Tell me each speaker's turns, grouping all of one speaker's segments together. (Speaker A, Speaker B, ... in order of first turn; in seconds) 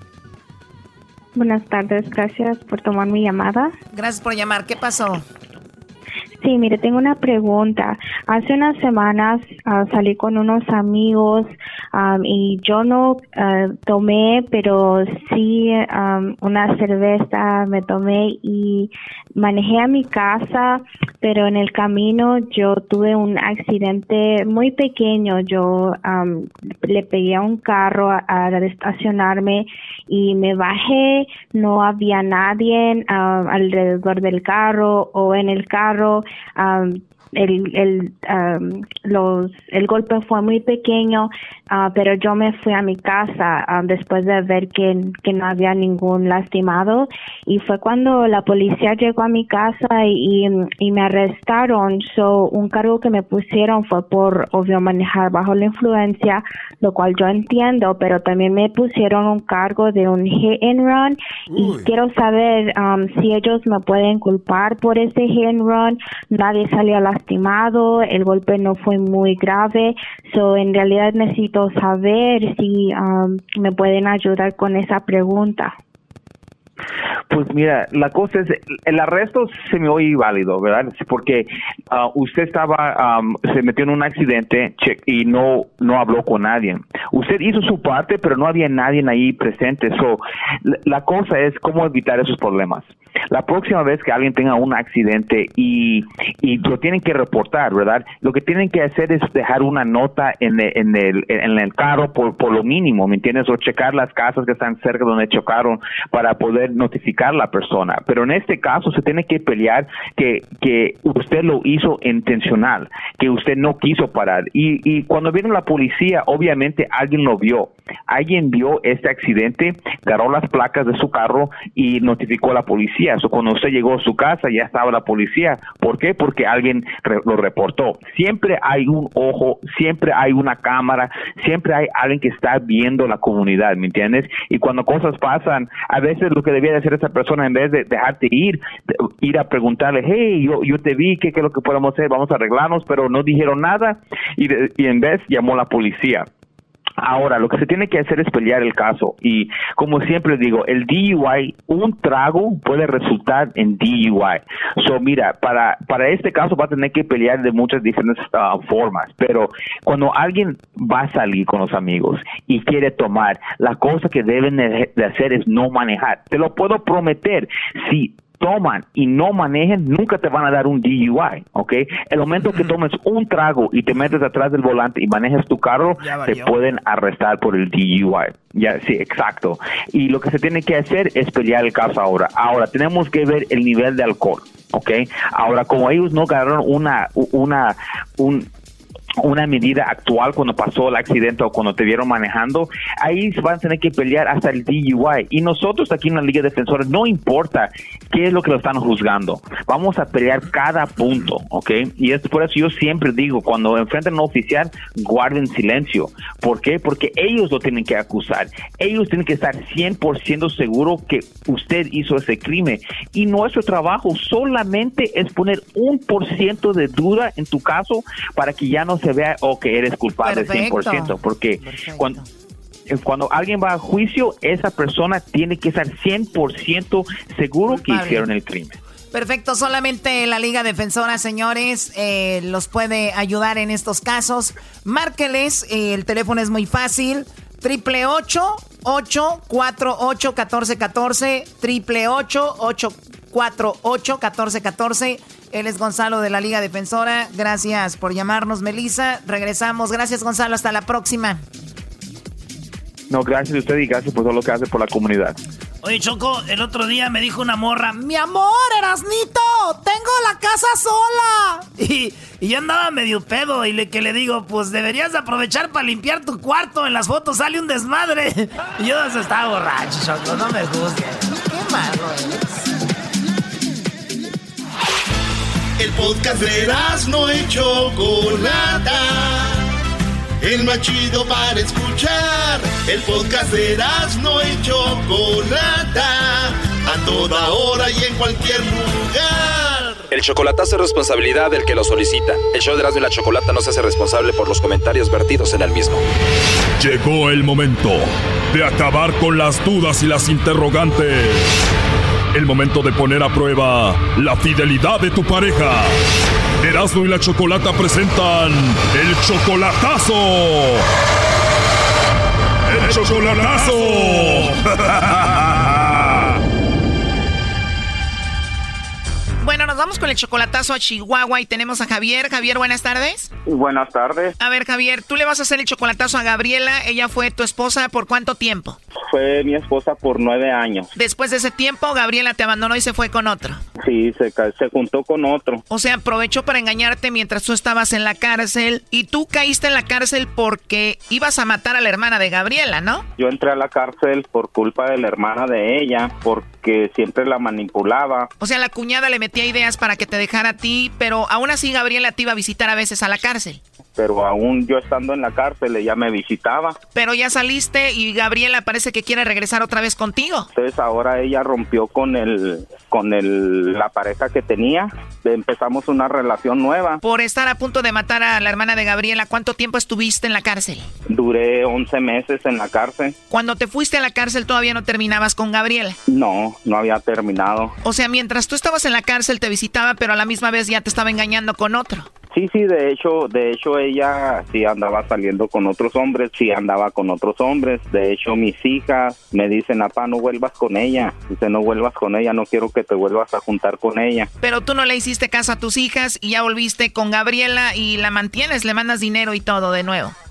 Speaker A: 1.3-3.7, 6.4-75.7
Speaker B: 3.9-5.2, 220.2-222.2, 227.7-228.3, 229.1-251.4, 258.4-261.6, 271.3-272.7, 319.4-323.3, 324.4-328.8, 330.9-333.6, 335.7-343.1, 348.4-353.6, 356.9-360.5, 367.0-370.9, 373.3-376.0, 377.8-382.1, 394.4-400.1
Speaker C: 77.3-138.6, 139.2-146.3, 147.0-188.5, 189.2-222.2, 222.9-228.8, 253.1-255.4
Speaker D: 255.8-258.4, 261.8-271.3
Speaker E: 275.8-279.7, 280.4-290.1
Speaker F: 290.1-296.0
Speaker G: 296.8-301.6, 302.3-306.0, 306.6-310.8, 312.7-316.3
Speaker H: 323.4-324.3, 329.1-330.9, 333.8-335.6, 343.2-348.3, 353.9-356.8, 360.6-367.0, 371.1-373.2, 376.1-377.7, 382.3-394.3